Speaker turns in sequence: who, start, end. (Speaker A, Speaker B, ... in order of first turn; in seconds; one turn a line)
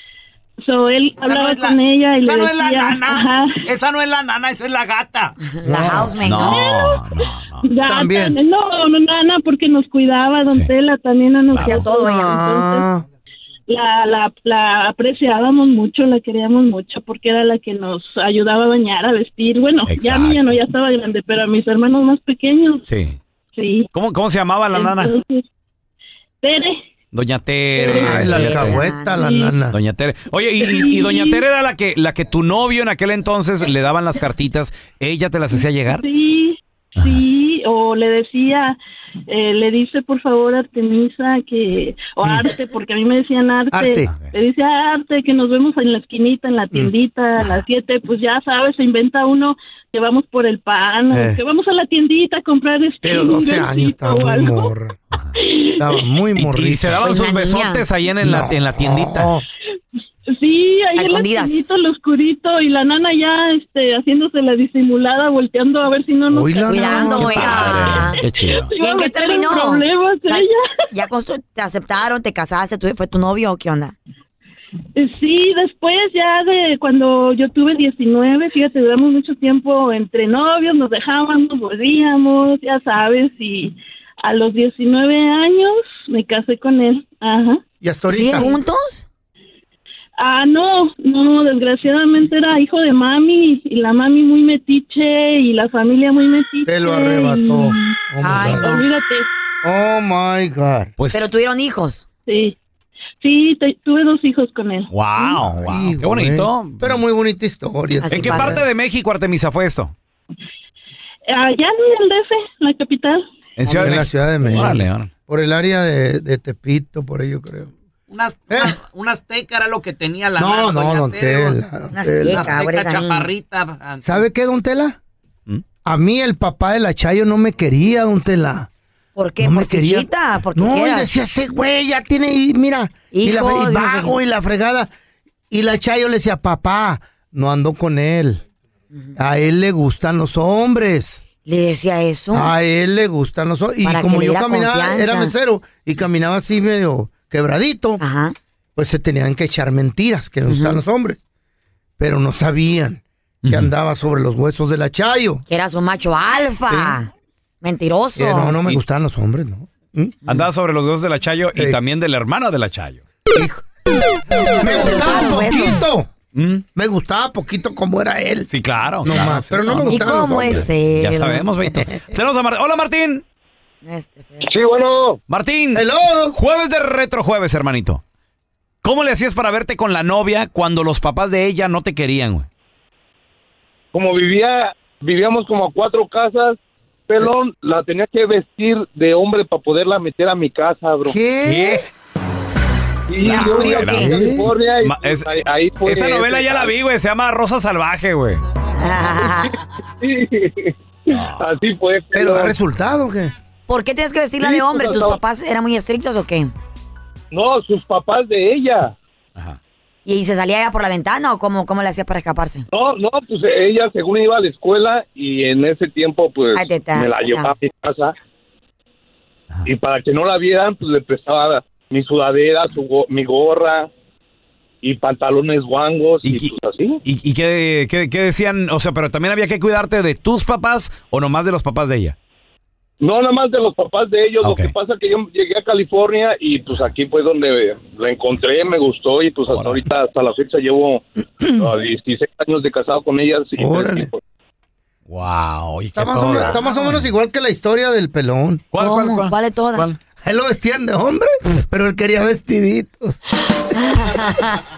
Speaker A: 0.6-3.6
Speaker B: 1.2-5.3
Speaker C: 5.4-6.6
Speaker D: 5.6-6.2
Speaker E: 6.2-7.7
Speaker A: 6.4-7.0
Speaker A: 7.6-12.9
Speaker D: 7.8-8.4
Speaker E: 10.5-10.7
Speaker E: 11.5-11.8
Speaker C: 11.6-12.2
Speaker D: 11.8-13.0
Speaker A: 13.7-22.9
Speaker E: 19.9-20.6
Speaker E: 22.9-23.2
Speaker A: 23.6-23.9
Speaker E: 23.9-25.1
Speaker A: 24.7-25.4
Speaker A: 26.4-26.8
Speaker E: 27.1-28.8
Speaker A: 27.8-28.1
Speaker D: 27.9-29.8
Speaker C: 28.2-29.2
Speaker A: 29.2-29.5
Speaker E: 29.7-36.0
Speaker A: 30.6-31.4
Speaker A: 35.5-38.8
Speaker E: 37.0-37.2
Speaker A: 39.3-54.7
Speaker D: 42.2-42.5
Speaker D: 43.7-44.1
Speaker E: 44.1-44.3
Speaker D: 51.1-51.4
Speaker D: 53.0-55.0
Speaker A: 55.4-55.9
Speaker D: 55.8-57.0
Speaker E: 56.4-59.3
Speaker C: 57.0-57.9
Speaker D: 58.2-59.4
Speaker A: 60.3-70.6
Speaker C: 61.0-61.7
Speaker D: 66.3-68.0
Speaker C: 66.7-68.2
Speaker E: 67.2-68.7
Speaker C: 68.8-74.0
Speaker A: 75.0-87.6
Speaker D: 87.8-88.6
Speaker C: 88.1-89.0
Speaker A: 90.2-98.0
Speaker D: 96.7-98.8
Speaker C: 98.2-98.9
Speaker A: 98.6-99.3
Speaker D: 99.6-100.9
Speaker E: 101.0-101.3
Speaker C: 101.1-102.0
Speaker A: 102.3-102.6
Speaker A: 103.2-105.4
Speaker E: 104.9-107.0
Speaker D: 105.4-108.7
Speaker C: 108.0-108.7
Speaker E: 108.1-109.9
Speaker A: 111.3-113.2
Speaker E: 113.6-115.1
Speaker D: 113.7-117.7
Speaker B: 118.1-121.6
Speaker D: 118.5-118.8
Speaker D: 120.4-122.6
Speaker C: 121.9-123.3
Speaker B: 122.3-124.2
Speaker D: 124.0-125.0
Speaker D: 125.8-128.7
Speaker C: 129.2-131.1
Speaker D: 129.4-134.9
Speaker C: 133.1-134.2
Speaker D: 135.5-138.4
Speaker D: 139.2-141.2
Speaker C: 141.4-142.5
Speaker D: 142.3-148.0
Speaker C: 143.8-145.3
Speaker C: 148.0-148.3
Speaker D: 148.8-151.2
Speaker C: 150.5-150.8
Speaker D: 152.0-155.4
Speaker E: 153.4-153.7
Speaker C: 155.5-157.1
Speaker D: 156.7-157.0
Speaker C: 157.6-158.6
Speaker D: 158.2-160.2
Speaker E: 160.3-163.0
Speaker D: 163.3-163.7
Speaker D: 164.6-166.1
Speaker C: 164.6-165.8
Speaker E: 166.3-166.7
Speaker D: 166.8-168.5
Speaker E: 168.5-173.2
Speaker D: 169.0-170.7
Speaker C: 169.9-171.5
Speaker D: 171.7-171.9
Speaker C: 173.8-174.5
Speaker F: 174.4-175.2
Speaker E: 175.3-178.0
Speaker D: 175.7-176.4
Speaker E: 178.8-182.5
Speaker F: 183.9-186.6
Speaker F: 187.1-191.2
Speaker D: 191.1-191.8
Speaker E: 191.4-191.8
Speaker F: 193.1-196.7
Speaker C: 193.2-194.2
Speaker E: 193.2-194.1
Speaker D: 194.0-194.5
Speaker E: 194.8-198.4
Speaker C: 198.8-199.6
Speaker F: 199.2-202.5
Speaker E: 201.1-201.6
Speaker D: 202.1-203.3
Speaker C: 203.7-206.5
Speaker F: 204.4-205.2
Speaker F: 207.3-208.9
Speaker C: 210.1-212.7
Speaker F: 212.7-218.1
Speaker C: 216.5-217.5
Speaker F: 219.7-223.9
Speaker F: 224.8-227.0
Speaker E: 226.2-226.5
Speaker E: 227.1-232.2
Speaker F: 233.0-241.0
Speaker E: 234.4-234.7
Speaker E: 239.5-239.8
Speaker F: 241.6-244.2
Speaker D: 243.6-244.1
Speaker E: 245.1-247.1
Speaker D: 245.9-248.6
Speaker E: 248.7-250.0
Speaker C: 248.8-249.9
Speaker D: 250.2-253.2
Speaker C: 253.7-254.6